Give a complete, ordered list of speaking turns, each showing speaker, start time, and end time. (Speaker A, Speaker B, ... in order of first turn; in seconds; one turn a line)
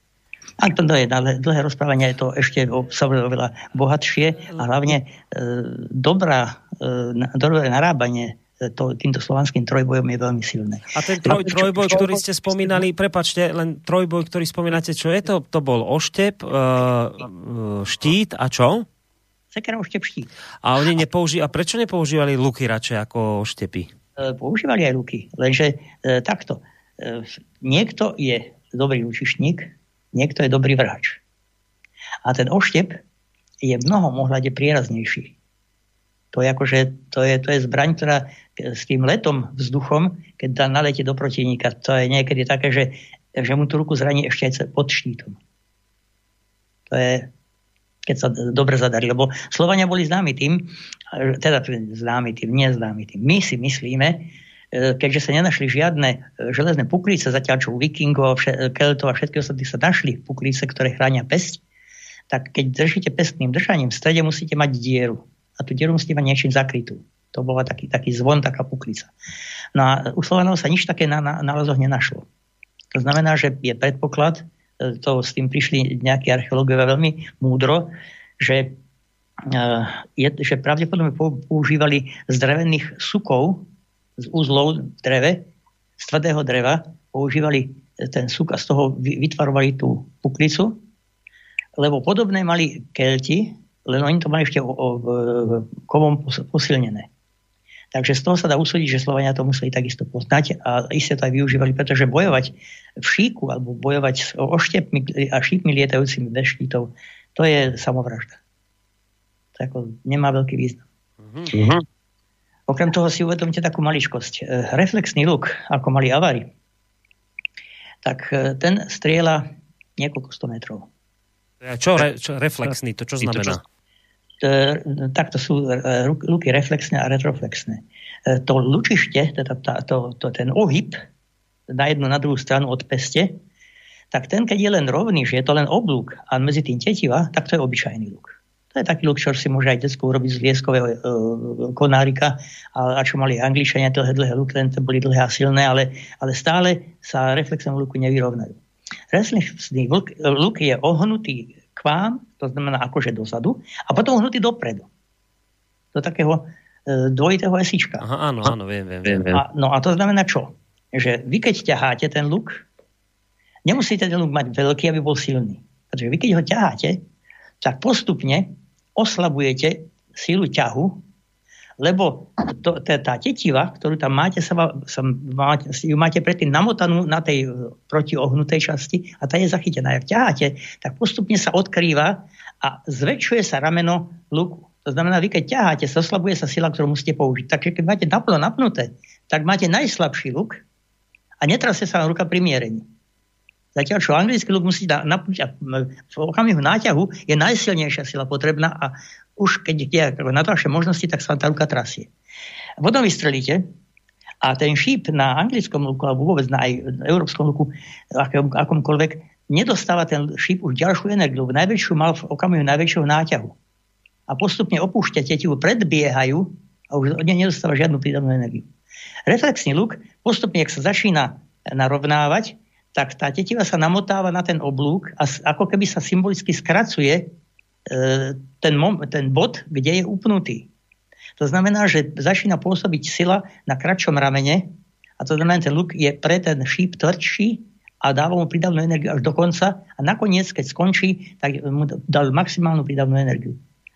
Speaker A: 0.6-12.0
Speaker B: 10.9-18.9
Speaker A: 19.5-20.3
Speaker B: 20.6-23.9
Speaker A: 24.2-31.2
Speaker A: 32.2-33.0
Speaker A: 33.6-35.4
Speaker A: 36.3-45.4
Speaker A: 46.9-47.3
Speaker A: 48.0-61.6
Speaker A: 62.3-69.1
Speaker A: 69.8-72.3
Speaker A: 72.9-78.8
Speaker A: 79.5-85.5
Speaker A: 86.0-90.8
Speaker A: 91.8-97.1
Speaker A: 97.9-108.4
Speaker A: 109.5-110.8
Speaker B: 111.2-111.8
Speaker A: 112.7-116.5
Speaker A: 118.0-119.5
Speaker A: 120.0-120.9
Speaker B: 121.6-123.6
Speaker A: 124.4-131.0
Speaker A: 131.7-133.4
Speaker A: 134.1-148.6
Speaker A: 149.1-154.9
Speaker A: 155.9-158.1
Speaker B: 158.0-159.4
Speaker A: 159.3-162.7
Speaker A: 163.7-167.0
Speaker A: 167.6-171.0
Speaker A: 171.8-190.6
Speaker A: 191.4-192.9
Speaker A: 193.8-202.1
Speaker A: 202.8-203.7
Speaker A: 204.4-213.6
Speaker A: 214.3-218.7
Speaker A: 219.3-227.3
Speaker A: 227.9-230.7
Speaker A: 231.4-243.6